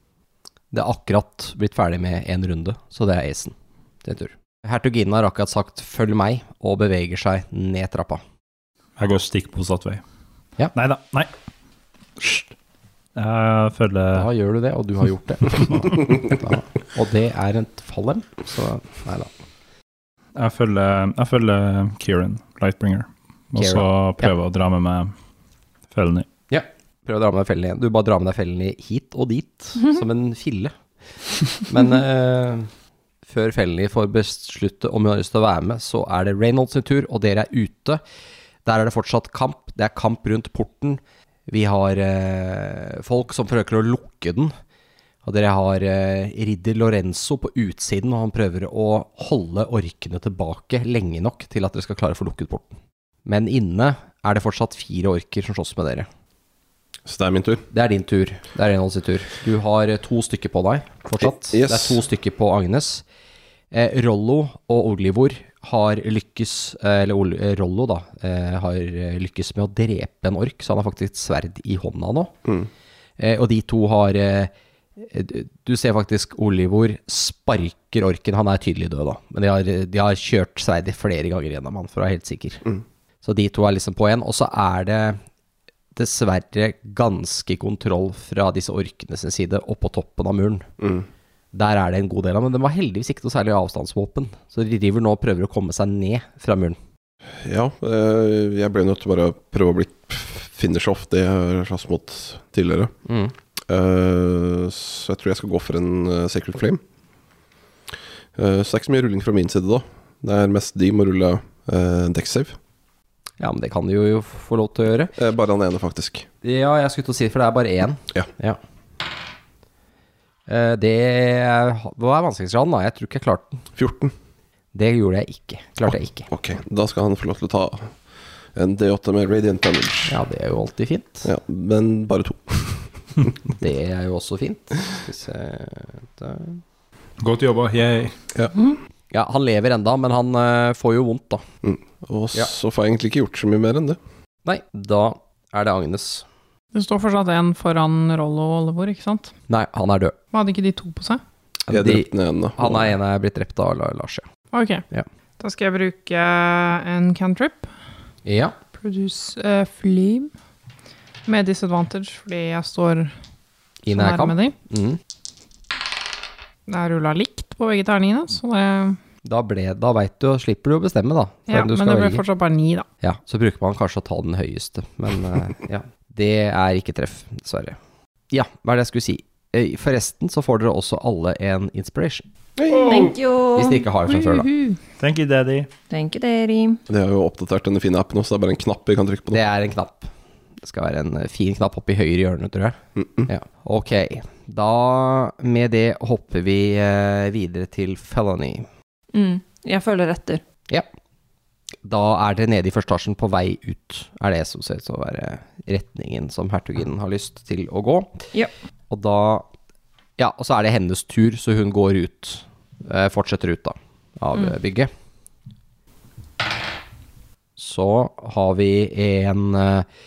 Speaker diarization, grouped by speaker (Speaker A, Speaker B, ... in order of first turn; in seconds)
Speaker A: 0.7-8.2, 14.1-19.3, 23.6-24.3, 26.5-30.7, 31.6-32.7, 33.3-38.0, 38.6-44.5, 45.2-56.1, 57.7-63.0, 63.7-72.3, 73.2-82.6, 83.2-85.2, 86.0-90.7, 91.5-96.8, 103.1-103.3, 113.4-115.1, 116.4-118.6, 120.5-123.6, 124.7-126.3, 130.1-131.3, 133.6-136.6, 139.1-141.4, 144.4-146.2, 149.5-150.2, 151.7-154.3, 158.3-158.6, 163.9-165.0, 169.2-172.2, 173.0-177.8, 178.3-182.2, 183.6-184.5, 189.3-190.1, 190.6-198.7, 201.8-208.2, 208.9-209.5, 210.2-214.9, 217.6-219.9
Speaker B: 9.0-10.0, 10.7-11.3, 12.2-12.5, 13.2-14.3, 20.4-25.1, 25.9-26.3, 137.2-138.2, 185.0-185.7
Speaker C: 57.1-57.7, 61.2-62.0, 90.8-91.1, 97.4-102.9, 103.7-106.8, 108.3-112.6, 115.2-116.3, 123.8-124.1, 125.9-127.9, 128.6-130.1, 131.2-133.3, 141.6-144.0, 151.7-152.9, 182.6-183.2, 186.9-189.4, 193.0-193.3
Speaker D: 146.7-149.3, 150.3-151.2, 154.5-154.8, 155.4-157.7, 158.8-160.3, 161.3-163.1, 163.9-164.6, 166.7-169.0, 171.5-172.9, 184.1-184.8
Speaker E: 182.7-183.8, 185.9-186.8, 199.1-200.4